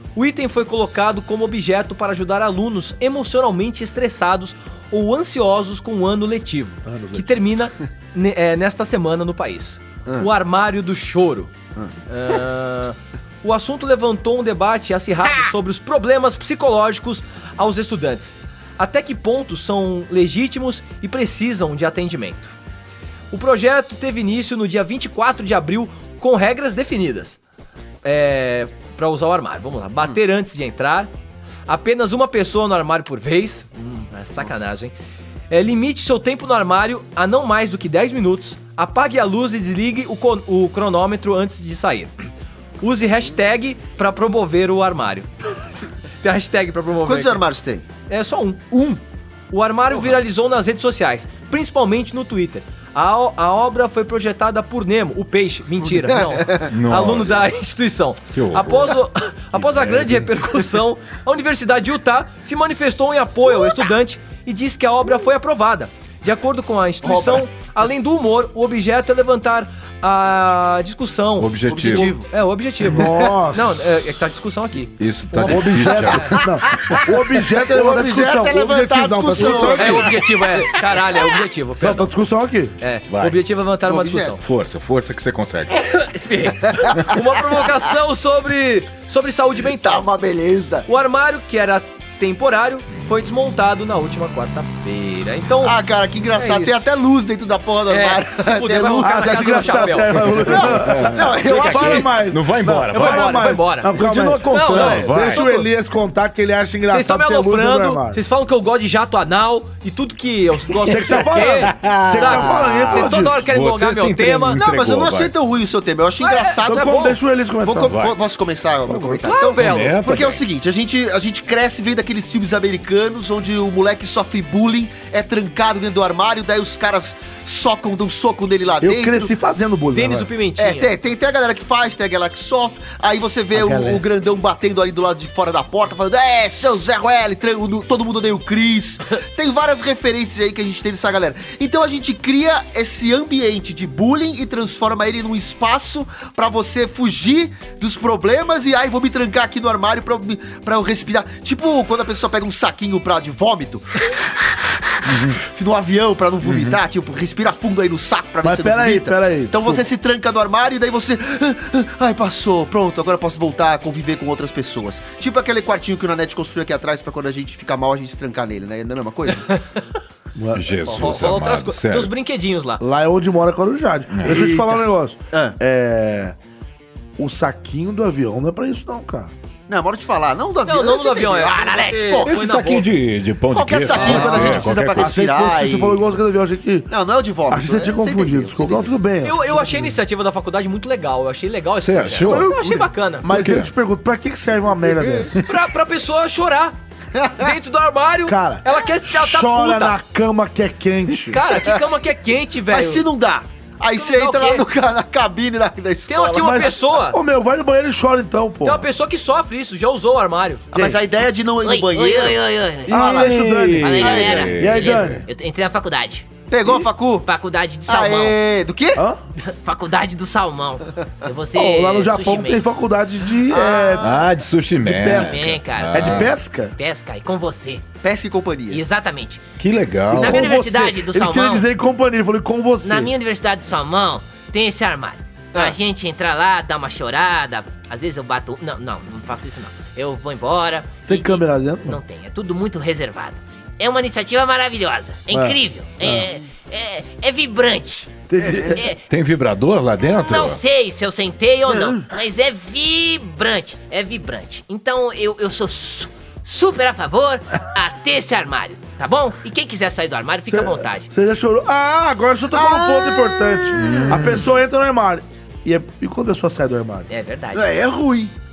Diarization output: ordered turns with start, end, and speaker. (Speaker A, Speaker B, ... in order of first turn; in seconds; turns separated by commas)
Speaker A: 0.2-11.5, Speaker B: 6.8-7.4, Speaker A: 12.1-22.5, Speaker A: 23.3-27.4, Speaker A: 28.0-31.1, Speaker A: 31.7-34.9, Speaker A: 35.5-42.3, Speaker A: 42.8-47.4, Speaker C: 47.0-47.9, Speaker A: 48.1-49.0, Speaker A: 49.5-76.4, Speaker C: 55.9-56.7, Speaker D: 56.7-57.5, Speaker D: 58.3-59.0, Speaker D: 59.5-60.3, Speaker C: 67.0-67.4, Speaker D: 71.4-72.2, Speaker C: 71.7-72.3, Speaker B: 72.8-73.8, Speaker D: 75.0-76.5, Speaker B: 75.4-80.2, Speaker C: 77.6-80.2, Speaker A: 79.4-82.1, Speaker B: 81.8-82.8, Speaker A: 82.8-84.4, Speaker D: 83.1-83.4, Speaker C: 83.9-84.4, Speaker D: 84.4-85.9, Speaker A: 85.9-90.1, Speaker C: 89.8-90.9, Speaker A: 90.9-95.8, Speaker C: 95.6-102.1, Speaker A: 96.3-96.8, Speaker A: 97.9-100.4, Speaker B: 99.0-108.2, Speaker D: 100.5-105.5, Speaker A: 101.5-102.1, Speaker A: 102.9-105.7, Speaker A: 106.9-114.6, Speaker B: 110.8-113.4, Speaker D: 110.9-115.3, Speaker C: 114.6-117.0, Speaker A: 116.2-117.2, Speaker B: 116.7-118.0, Speaker C: 117.6-129.3, Speaker D: 117.9-118.2, Speaker B: 118.9-119.3, Speaker A: 119.2-120.1, Speaker D: 119.6-120.4, Speaker B: 128.8-130.3, Speaker A: 129.9-130.9, Speaker C: 130.6-169.5, Speaker B: 133.5-134.0, Speaker D: 155.1-155.4, Speaker D: 156.4-156.8, Speaker B: 158.4-159.9, Speaker A: 169.5-169.8, Speaker B: 170.3-171.2, Speaker D: 170.5-172.1, Speaker A: 170.8-172.8, Speaker B: 172.8-176.4, Speaker D: 174.1-174.5, Speaker C: 174.2-174.8, Speaker B: 177.2-179.3, Speaker C: 179.7-182.7, Speaker A: 180.7-182.9, Speaker D: 182.3-185.2, Speaker C: 183.5-186.0, Speaker A: 183.9-184.7, Speaker B: 184.1-186.9, Speaker C: 186.9-188.9, Speaker B: 187.5-189.9, Speaker A: 189.2-193.3, Speaker D: 191.8-192.6, Speaker C: 192.3-192.9, Speaker B: 193.2-195.4, Speaker D: 193.3-193.7, Speaker A: 195.4-196.8, Speaker C: 197.2-197.5, Speaker A: 197.4-200.0, Speaker B: 198.3-201.4, Speaker A: 201.3-203.1, Speaker C: 202.7-206.8, Speaker A: 203.9-204.7, Speaker A: 206.1-207.2, Speaker B: 206.4-208.9, Speaker A: 208.6-210.7, Speaker B: 210.7-211.0, Speaker C: 210.7-213.4, Speaker E: 211.6-213.1, Speaker B: 212.9-215.2, Speaker D: 213.0-215.2, Speaker E: 213.8-216.4, Speaker C: 214.0-214.5, Speaker C: 216.5-217.3, Speaker E: 217.2-218.4, Speaker C: 217.8-219.0, Speaker B: 219.0-219.2, Speaker E: 219.4-222.6, Speaker B: 221.6-224.2, Speaker C: 223.5-224.3, Speaker D: 224.0-226.3, Speaker B: 224.8-226.8, Speaker E: 225.1-227.9, Speaker C: 228.0-228.8, Speaker E: 228.7-229.4, Speaker D: 229.6-230.5, Speaker B: 230.1-233.1, Speaker E: 230.1-231.7, Speaker E: 232.8-249.0, Speaker B: 241.1-242.0, Speaker B: 245.3-246.3, Speaker B: 248.3-248.8, Speaker C: 248.4-248.8, Speaker D: 249.1-250.6, Speaker E: 250.1-261.1, Speaker C: 251.7-252.1, Speaker B: 260.5-267.1, Speaker C: 262.5-263.8, Speaker D: 263.7-264.5, Speaker E: 267.1-267.8, Speaker C: 267.5-268.3